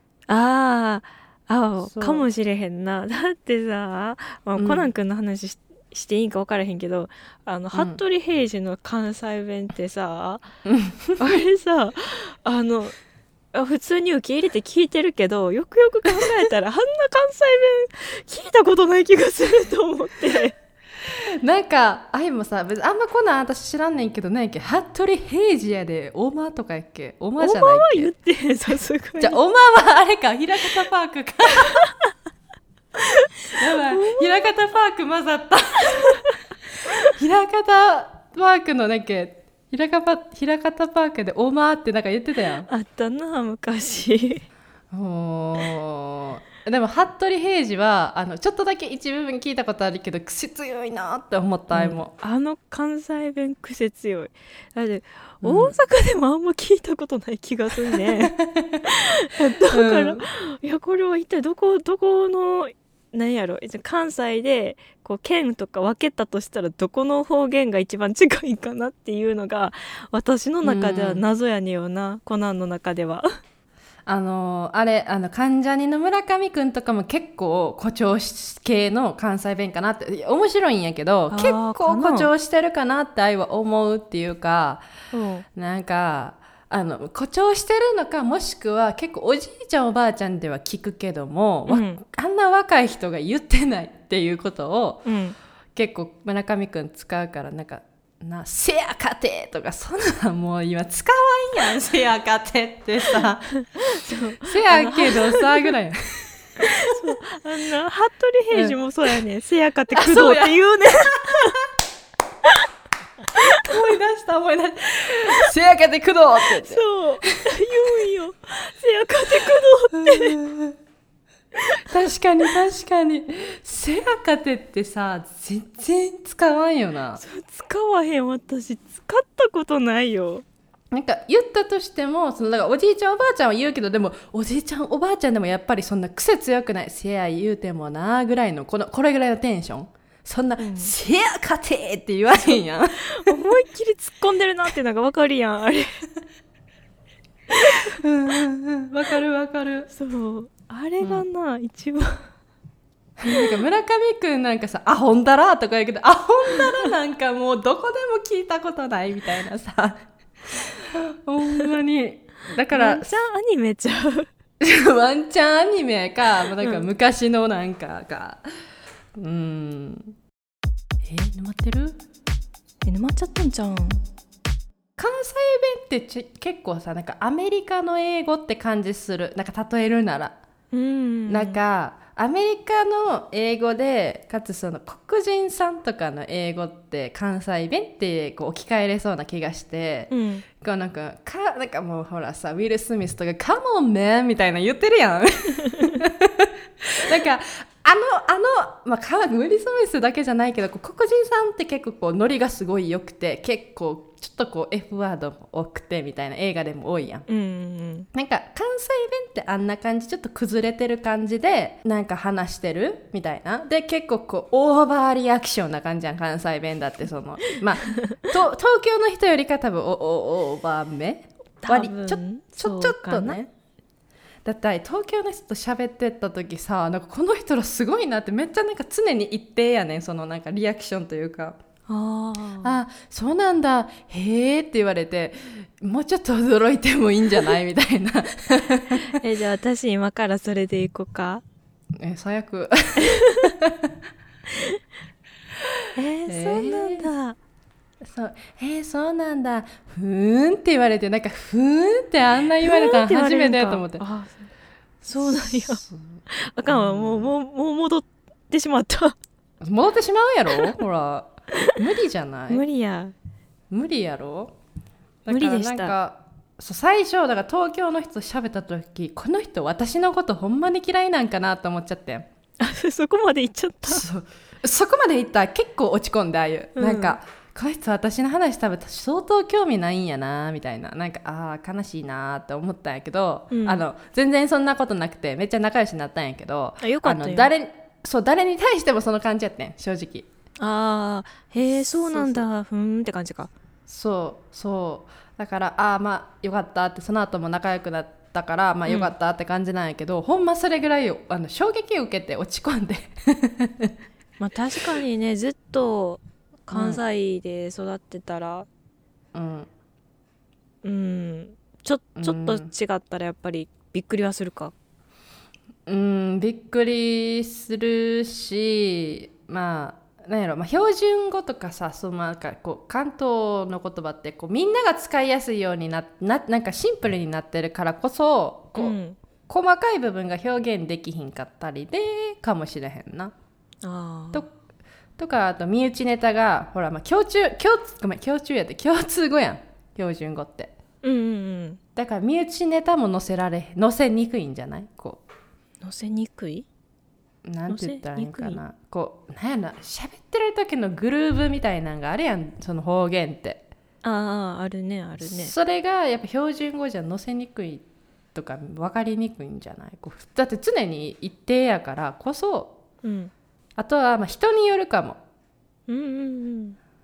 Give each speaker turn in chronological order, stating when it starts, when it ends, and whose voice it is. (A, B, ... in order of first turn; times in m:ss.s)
0:00.3-0:10.4 A
0:01.8-0:02.2 B
0:04.6-0:04.9 B
0:07.7-0:08.0 B
0:10.6-0:11.2 B
0:11.2-0:12.9 A
0:13.5-0:20.5 A
0:21.1-0:28.1 B
0:27.4-0:29.4 A
0:29.2-0:31.8 B
0:31.8-0:32.1 A
0:33.0-0:34.5 A
0:33.6-0:36.3 B
0:36.9-0:42.7 B
0:42.7-0:44.4 A
0:44.9-0:52.1 B
0:51.7-1:13.2 A
0:55.4-0:55.8 B
0:58.2-0:58.8 B
0:59.7-1:00.2 B
1:10.6-1:11.2 B
1:14.0-1:24.8 B
1:21.3-1:22.3 A
1:25.1-1:25.4 A
1:25.5-1:35.0 B
1:31.7-1:32.0 A
1:35.0-1:35.4 A
1:35.8-1:43.5 B
1:43.6-1:45.4 A
1:44.4-1:46.2 B
1:46.6-1:51.6 A
1:48.5-1:48.8 B
1:49.9-1:51.6 B
1:53.4-1:57.9 B
1:56.5-2:00.4 A
1:59.9-2:00.8 B
2:01.8-2:07.2 B
2:07.2-2:10.4 A
2:10.9-2:23.4 B
2:20.6-2:20.9 A
2:22.4-2:25.9 A
2:27.9-2:29.9 B
2:29.9-2:32.2 A
2:33.2-2:43.1 B
2:33.3-2:33.5 A
2:42.7-2:44.3 A
2:44.6-2:48.4 B
2:46.6-2:46.8 A
2:49.2-2:50.1 B
2:51.0-2:52.0 B
2:52.8-2:54.0 A
2:55.0-3:00.4 B
3:00.7-3:01.6 A
3:01.3-3:27.2 B
3:10.1-3:10.4 A
3:15.6-3:16.0 A
3:27.3-3:28.1 A
3:28.1-3:43.5 B
3:37.9-3:38.1 A
3:41.6-3:43.4 A
3:44.4-3:51.6 B
3:51.9-3:52.8 A
3:52.6-3:59.2 B
3:59.0-4:01.4 A
4:02.0-4:03.9 B
4:03.0-4:03.5 A
4:04.5-4:04.8 A
4:06.0-4:07.4 A
4:06.3-4:07.1 B
4:08.1-4:14.0 B
4:12.6-4:14.5 A
4:15.0-4:19.2 A
4:15.1-4:17.3 B
4:19.6-4:22.6 B
4:22.5-4:23.1 A
4:23.7-4:24.5 B
4:25.2-4:32.3 B
4:25.3-4:25.9 A
4:32.6-4:34.0 A
4:33.8-4:50.3 B
4:36.8-4:37.2 A
4:43.5-4:43.8 A
4:46.8-4:47.5 A
4:50.6-4:53.5 A
4:51.7-4:52.4 B
4:53.9-5:03.9 B
4:58.9-4:59.1 A
5:04.4-5:08.7 A
5:06.7-5:07.0 B
5:09.3-5:09.7 B
5:10.8-5:14.7 A
5:12.2-5:12.7 B
5:15.8-5:29.0 B
5:28.8-5:29.2 A
5:29.5-5:33.3 B
5:33.8-5:34.4 A
5:35.2-5:40.7 B
5:41.0-5:41.8 A
5:42.0-5:45.2 B
5:45.8-5:46.6 A
5:47.4-5:53.7 B
5:47.7-5:48.6 A
5:54.0-5:55.5 A
5:55.2-5:57.8 B
5:58.3-6:02.8 B
6:03.0-6:03.3 A
6:03.8-6:05.2 B
6:05.9-6:06.8 A